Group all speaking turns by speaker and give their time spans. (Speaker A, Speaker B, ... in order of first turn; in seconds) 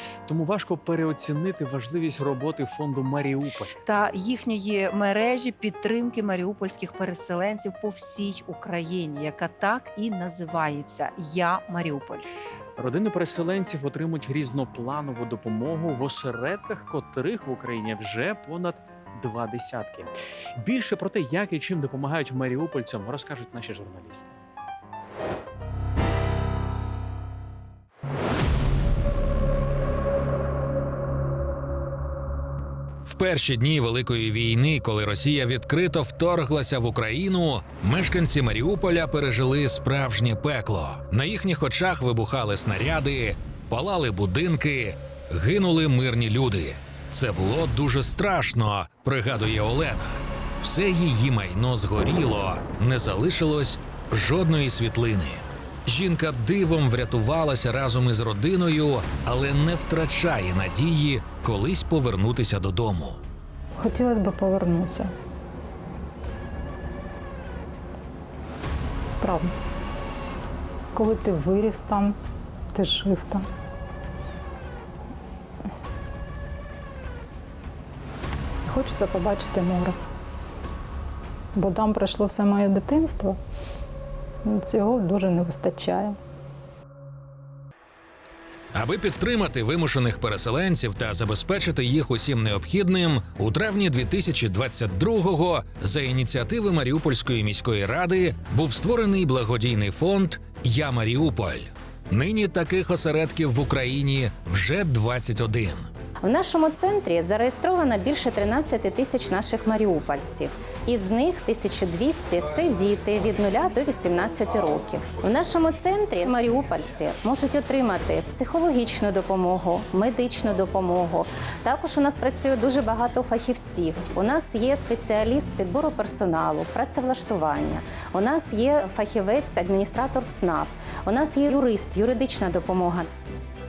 Speaker A: 0.3-3.8, 12.8-24.3
Speaker B: 3.9-12.3
Speaker C: 33.0-63.2, 88.7-105.9
Speaker D: 63.7-65.1, 69.2-69.5, 70.9-72.2, 72.7-73.5, 78.7-80.0, 81.5-83.4, 84.4-86.2
Speaker E: 106.2-133.1